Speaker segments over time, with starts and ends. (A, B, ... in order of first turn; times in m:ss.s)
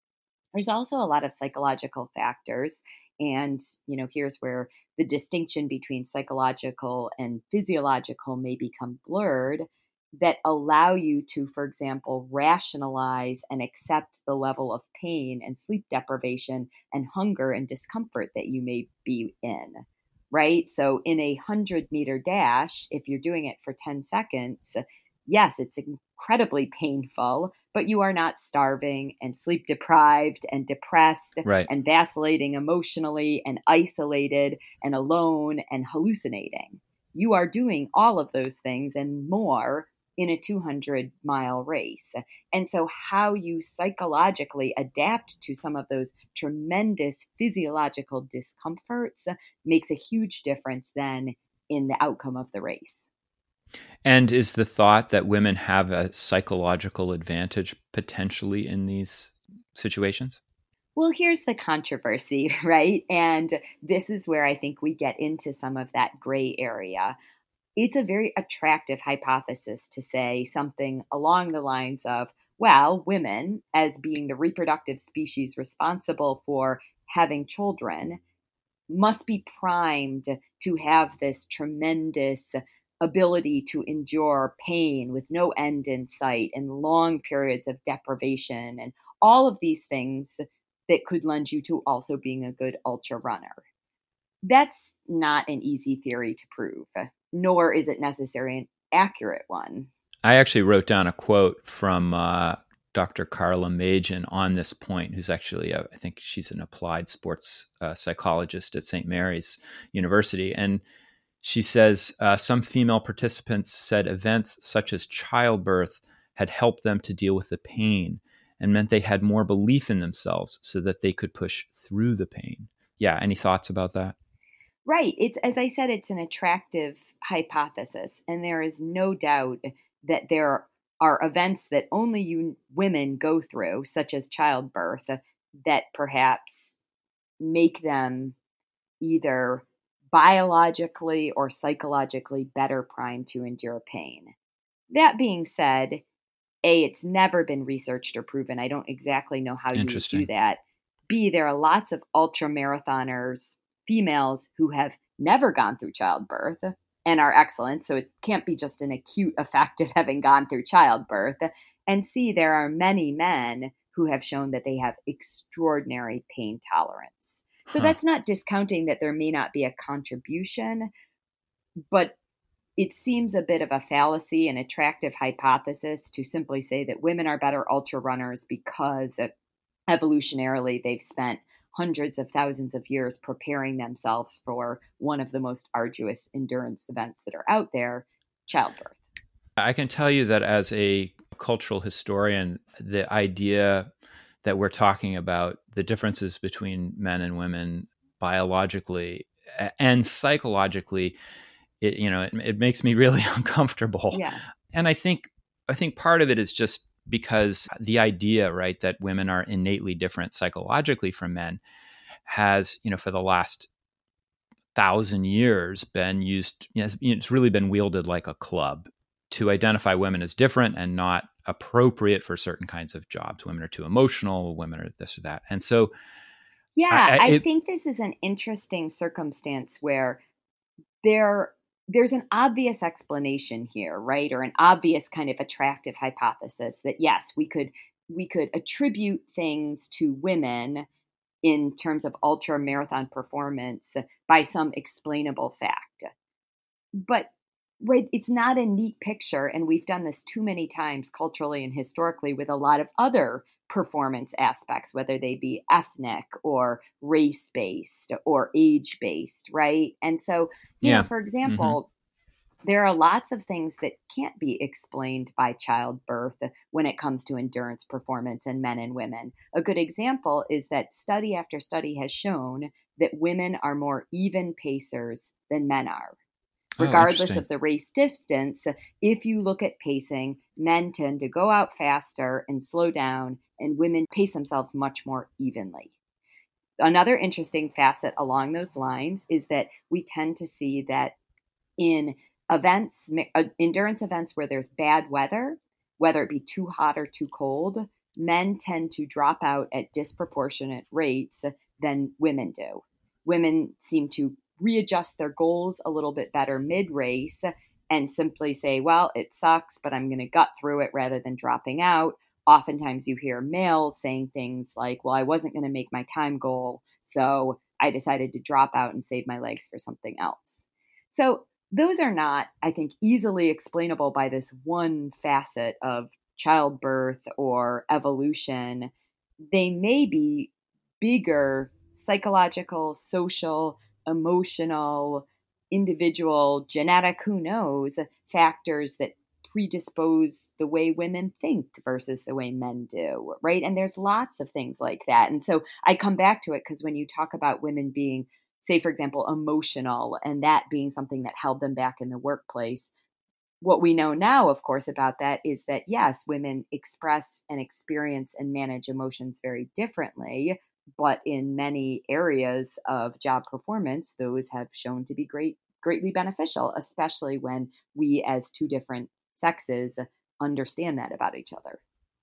0:00.5-0:09.7 A
0:10.2-0:53.1 A
0:54.0-1:00.4 B
1:01.0-1:07.2 A
1:07.8-1:18.2 A
1:18.9-1:33.6 A
1:34.4-1:39.9 A
1:40.2-1:50.8 B
1:51.4-2:04.1 B
2:04.8-2:16.7 A
2:17.4-2:18.4 A
2:19.0-2:24.3 A
2:24.9-2:26.0 A
2:26.6-2:50.9 A
2:29.7-2:30.2 B
2:47.7-2:48.0 B
2:51.9-2:52.2 A
2:52.8-2:59.3 A
2:59.9-3:09.0 A
3:09.6-3:13.9 B
3:14.4-3:21.2 B
3:21.8-3:31.6 B
3:24.1-3:24.4 A
3:32.2-3:33.7 B
3:34.7-3:45.9 B
3:46.8-3:50.2 A
3:46.9-3:47.4 B
3:51.0-4:00.8 A
4:01.4-4:06.1 A
4:07.0-4:07.3 A
4:07.8-4:21.9 A
4:20.8-4:21.8 B
4:22.6-4:36.2 A
4:36.8-4:37.4 B
4:36.8-4:45.9 A
4:46.8-4:51.1 A
4:51.8-5:28.9 A
5:29.5-5:52.9 A
5:53.6-6:11.8 A